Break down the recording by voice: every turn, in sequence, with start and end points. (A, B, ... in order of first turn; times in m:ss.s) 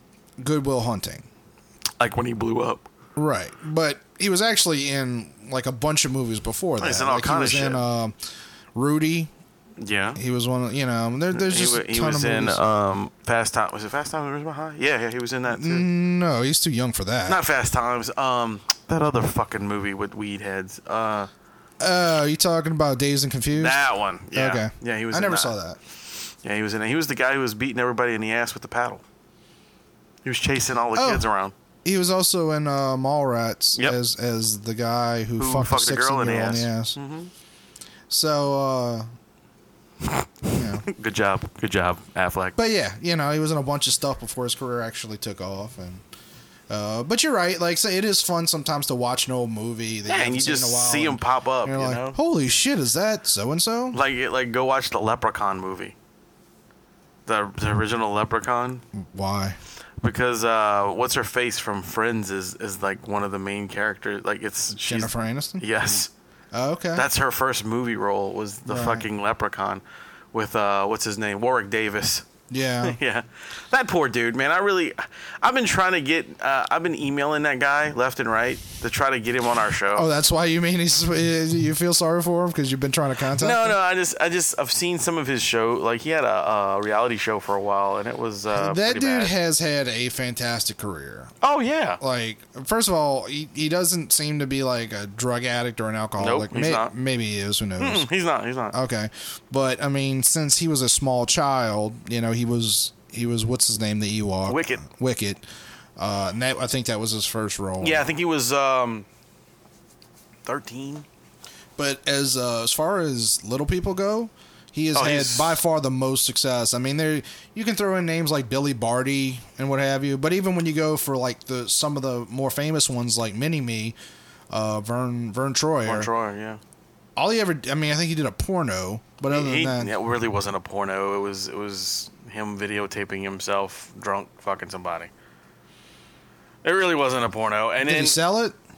0:00.4-0:01.3 A
0:02.0-0:02.8 B
0:03.2-0:08.2 A
0:06.8-0:07.8 B
0:08.8-0:09.3 A
0:09.8-0:10.2 B
0:10.2-0:12.6 A
0:11.3-0:15.9 B
0:15.5-0:17.4 A
0:17.3-0:21.3 B
0:21.8-0:25.8 A
0:23.5-0:25.6 B
0:26.4-0:29.0 B
0:30.2-0:31.5 B
0:30.9-0:31.3 A
0:31.8-0:37.0 A
0:35.4-0:37.3 B
0:38.1-0:39.1 A
0:40.1-0:42.6 B
0:40.5-0:40.9 A
0:42.6-0:46.0 A
0:46.7-0:54.0 A
0:50.1-0:52.2 B
0:53.9-0:56.0 B
0:57.3-0:58.8 B
0:58.9-0:59.6 A
1:00.0-1:06.1 B
1:04.7-1:05.6 A
1:06.5-1:07.1 A
1:07.0-1:12.3 B
1:08.7-1:09.1 A
1:12.5-1:13.0 A
1:12.8-1:20.1 B
1:19.9-1:23.8 A
1:23.4-1:29.3 B
1:28.5-1:31.3 A
1:31.4-1:32.0 B
1:32.0-1:38.1 A
1:36.2-1:36.9 B
1:37.8-1:38.8 B
1:38.7-1:45.4 A
1:44.5-1:44.8 B
1:46.0-1:48.1 A
1:47.8-1:49.1 B
1:50.4-1:51.1 B
1:51.8-2:04.0 A
1:54.9-1:55.6 B
2:04.5-2:06.1 A
2:05.8-2:06.6 B
2:07.2-2:09.9 A
2:09.3-2:15.1 B
2:16.6-2:18.2 B
2:17.8-2:18.6 A